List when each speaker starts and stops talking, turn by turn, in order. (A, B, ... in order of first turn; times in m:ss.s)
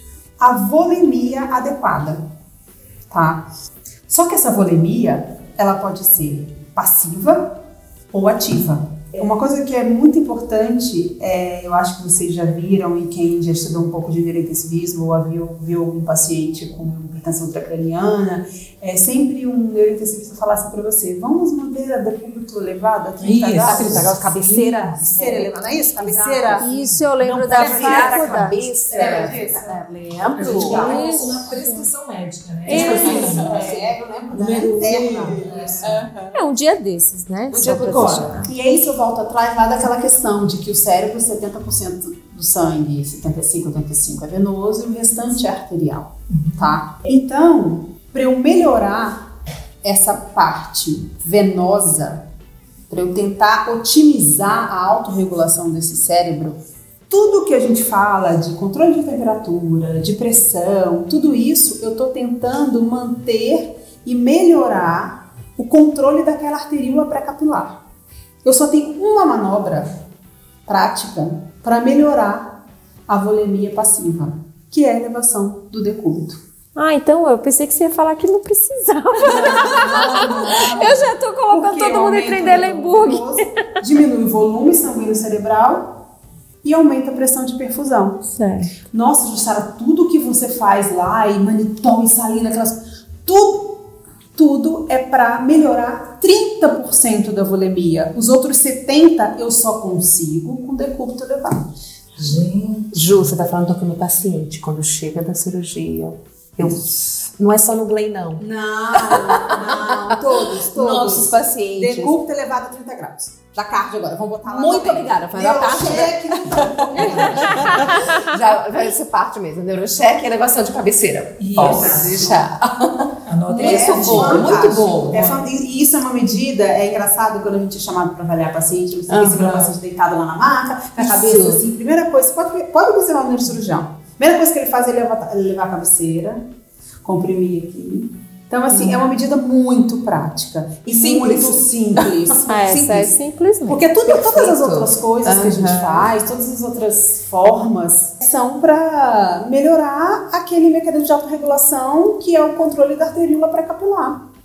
0:00.4-0:02.3 A
0:03.1-0:03.5 A
0:04.1-0:07.6 A
0:08.1-0:24.3 A
0:23.2-0:25.0 B
0:23.6-0:26.7 C
0:25.0-0:26.6 A
0:26.6-0:28.6 D
0:26.8-0:27.7 B
0:27.2-0:31.0 C
0:27.5-0:29.7 A
0:29.0-0:29.8 B
0:30.3-0:36.1 B
0:30.4-0:31.4 A
0:30.5-0:31.9 D
0:32.7-0:33.4 D
0:32.7-0:36.3 A
0:32.7-0:33.7 C
0:36.3-0:38.5 D
0:37.5-0:49.3 A
0:46.3-0:46.8 B
0:49.8-0:52.2 A
0:52.9-1:07.8 A
1:08.4-1:09.9 A
1:10.7-1:16.4 A
1:16.8-1:23.5 D
1:19.2-1:26.0 A
1:26.6-1:28.2 A
1:28.2-1:28.7 D
1:28.9-1:41.7 A
1:42.2-1:43.2 B
1:42.9-1:52.2 C
1:48.4-1:58.2 A
1:54.4-2:05.4 C
2:01.4-2:02.4 B
2:01.5-2:02.4 A
2:03.2-2:05.2 B
2:03.5-2:16.4 A
2:09.1-2:09.7 C
2:11.0-2:11.6 C
2:17.0-2:23.1 A
2:20.9-2:22.1 C
2:22.5-2:23.9 D
2:23.7-2:34.2 A
2:24.0-2:26.1 C